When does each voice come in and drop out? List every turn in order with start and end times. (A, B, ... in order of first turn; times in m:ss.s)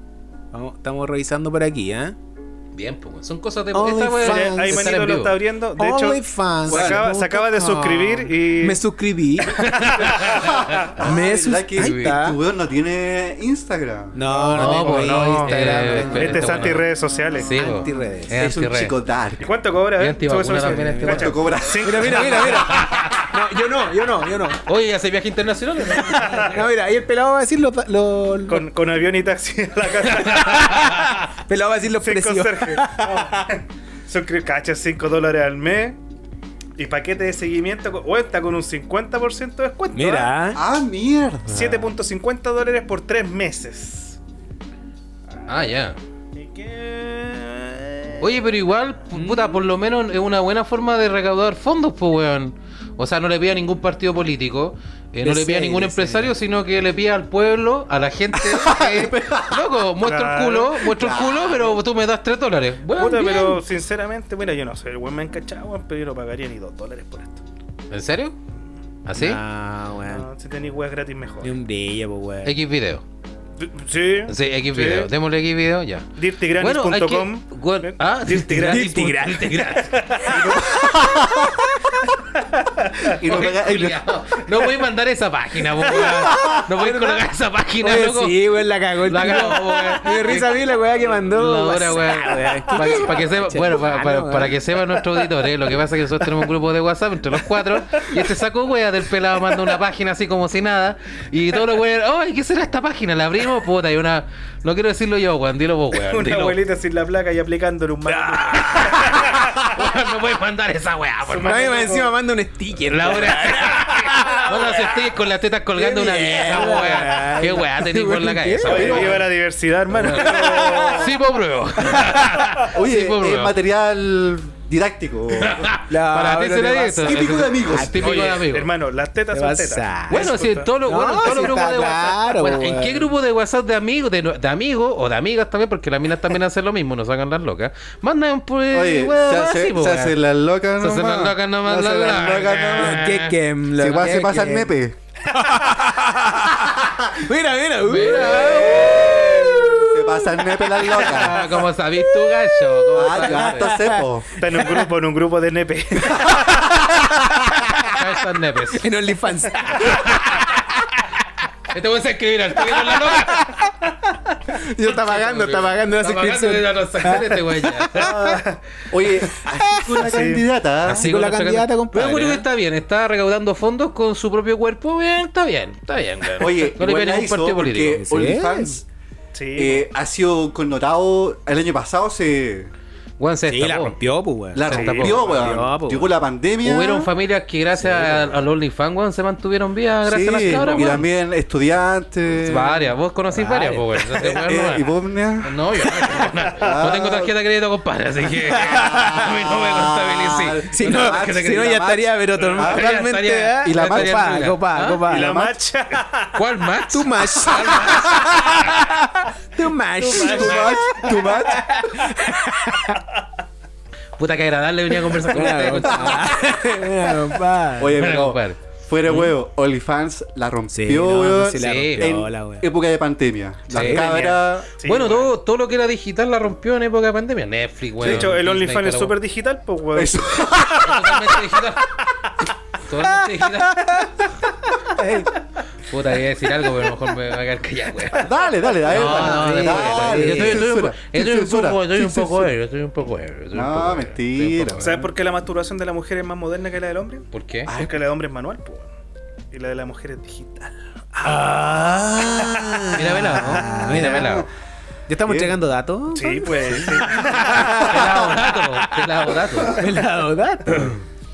0:00.5-0:02.2 A
0:02.7-0:05.4 B
0:03.7-0:05.0 A
0:04.2-0:08.8 C
0:05.8-0:10.3 A
0:06.7-0:07.1 D
0:09.8-0:11.0 B
0:10.2-0:14.2 D
0:11.0-0:12.4 A
0:11.8-0:12.2 B
0:14.1-0:16.8 A
0:14.3-0:17.5 C
0:14.5-0:18.9 B
0:17.4-0:18.3 A
0:18.3-0:19.5 D
0:19.4-0:22.8 C
0:20.0-0:21.4 B
0:20.6-0:21.3 A
0:21.1-0:22.3 D
0:21.8-0:24.6 A
0:22.1-0:23.3 B
0:24.6-0:26.7 B
0:26.1-0:28.7 A
0:26.2-0:26.5 C
0:28.5-0:31.0 C
0:30.2-0:31.0 B
0:30.5-0:33.5 A
0:31.9-0:36.0 C
0:36.8-0:40.3 C
0:39.9-0:40.6 A
0:40.5-0:41.9 D
0:41.5-0:44.2 C
0:45.5-0:46.0 B
0:46.3-0:48.3 C
0:48.2-1:03.6 B
0:49.1-0:49.4 A
0:55.2-0:56.3 A
0:58.3-0:59.7 D
1:00.0-1:00.8 C
1:00.9-1:01.8 D
1:02.9-1:07.4 C
1:07.9-1:08.3 B
1:09.0-1:09.4 B
1:09.1-1:10.3 A
1:10.1-1:11.5 C
1:11.4-1:12.5 A
1:12.4-1:13.0 B
1:13.6-1:15.1 C
1:14.3-1:20.2 B
1:16.2-1:18.9 C
1:18.5-1:19.7 A
1:19.7-1:20.7 C
1:20.2-1:22.0 A
1:20.4-1:21.7 D
1:23.0-1:24.0 D
1:23.2-1:28.5 B
1:25.9-1:27.2 A
1:27.8-1:34.6 A
1:29.0-1:46.6 B
1:45.9-1:49.6 C
1:48.0-1:49.4 A
1:48.8-1:51.7 B
1:51.2-1:52.1 C
1:51.4-1:54.9 A
1:52.9-1:59.3 B
1:55.7-1:59.0 A
1:58.6-1:59.3 D
1:58.6-2:01.1 C
1:59.9-2:03.5 B
2:00.2-2:01.1 A
2:01.8-2:02.2 A
2:02.7-2:05.7 D
2:05.3-2:08.7 B
2:05.9-2:08.1 A
2:07.0-2:08.2 D
2:08.0-2:10.7 C
2:09.3-2:10.3 A
2:10.1-2:20.2 B
2:10.8-2:13.1 A
2:18.7-2:23.1 D
2:20.8-2:23.3 B
2:22.8-2:24.7 A
2:23.8-2:25.0 D
2:25.3-2:34.8 A
2:26.6-2:27.2 D
2:27.8-2:29.4 B
2:28.2-2:31.5 D
2:31.0-2:33.8 B
2:32.9-2:34.3 D
2:34.4-2:36.7 C
2:37.2-2:37.9 A
2:37.8-2:38.9 B
2:38.7-2:40.1 A
2:39.8-2:40.5 B
2:41.7-2:43.7 B
2:43.0-2:43.7 A
2:44.5-2:48.4 A
2:44.8-2:48.2 B
2:48.1-2:48.6 C
2:48.9-2:51.1 D
2:49.4-2:49.9 A
2:50.0-2:50.4 C
2:50.8-2:58.0 B
2:51.0-2:52.4 A
2:56.4-2:58.8 D
2:58.0-2:58.7 A
2:59.3-2:59.9 C
2:59.5-3:02.7 D
3:03.2-3:04.0 B
3:03.5-3:06.1 A
3:04.5-3:07.1 D
3:04.6-3:05.4 B
3:04.7-3:05.5 C
3:06.6-3:11.0 B
3:10.0-3:13.0 D
3:12.3-3:14.9 B
3:13.4-3:14.3 A
3:13.5-3:15.6 D
3:15.4-3:21.8 B
3:16.5-3:17.3 D
3:18.5-3:19.2 A
3:18.6-3:22.9 D
3:20.7-3:25.3 A
3:22.4-3:25.1 B
3:23.6-3:24.3 D
3:25.1-3:26.4 C
3:25.1-3:25.6 D
3:26.3-3:28.6 B
3:26.9-3:33.0 A
3:30.0-3:31.8 D
3:30.1-3:30.7 C
3:30.4-3:30.7 B
3:34.2-3:36.7 B
3:35.1-3:38.0 A
3:35.9-3:36.2 D
3:37.8-3:44.7 D
3:37.9-3:39.3 B
3:40.7-3:42.7 A
3:41.6-3:42.1 B
3:43.7-3:44.2 B
3:43.7-3:44.0 A
3:43.9-3:45.3 C
3:44.8-3:49.2 B
3:48.0-3:48.3 D
3:48.0-3:50.4 C
3:49.9-3:51.2 D
3:50.7-3:52.0 B
3:52.8-3:54.1 B
3:53.7-3:54.0 A
3:55.0-3:55.2 A
3:55.9-3:58.3 B
3:58.2-4:02.5 D
3:58.9-4:00.7 A
3:58.9-4:05.1 B
4:03.5-4:05.0 D
4:04.8-4:08.9 C
4:07.3-4:07.7 B
4:07.6-4:08.0 D
4:09.5-4:11.4 C
4:11.2-4:14.4 A
4:12.6-4:13.0 C
4:12.9-4:14.5 B
4:13.7-4:14.4 D
4:15.1-4:18.9 A
4:15.2-4:15.6 D
4:16.1-4:17.6 C
4:17.6-4:19.9 B
4:17.8-4:18.4 D
4:19.6-4:21.0 A